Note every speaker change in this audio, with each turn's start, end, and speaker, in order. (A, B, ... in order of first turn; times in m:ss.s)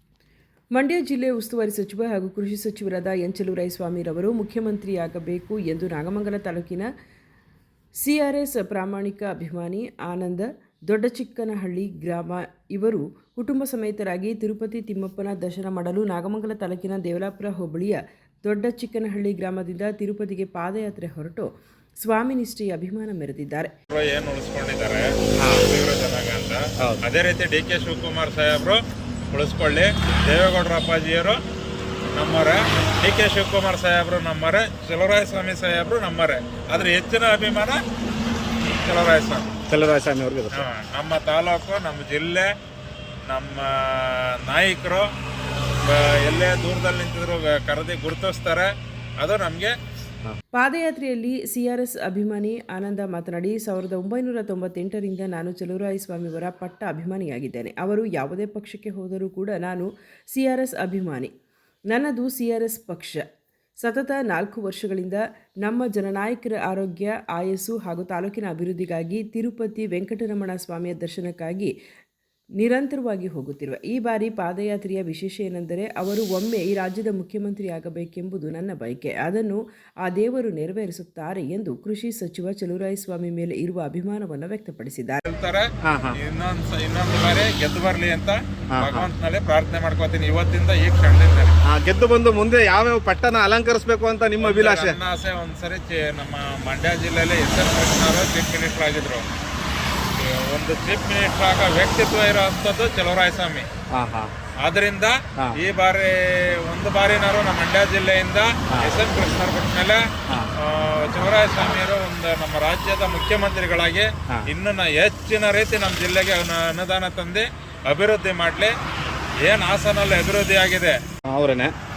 0:00.7-0:06.9 A
0:08.0-0:23.7 A
0:23.9-0:31.4 B
0:32.1-0:37.8 B
0:38.6-0:39.5 B
0:39.7-0:40.6 C
0:40.5-0:42.5 B
0:43.3-0:45.0 B
0:45.8-0:49.7 B
0:50.5-1:01.3 A
1:01.9-1:03.2 A
1:03.8-1:11.7 A
1:12.6-1:25.2 A
1:25.2-1:31.6 B
1:25.8-1:26.2 C
1:28.7-1:29.1 C
1:31.7-1:35.0 C
1:34.4-1:39.3 B
1:40.2-1:43.7 B
1:43.9-1:44.3 C
1:44.6-1:58.7 B
1:59.4-2:01.0 B
2:01.2-2:01.7 C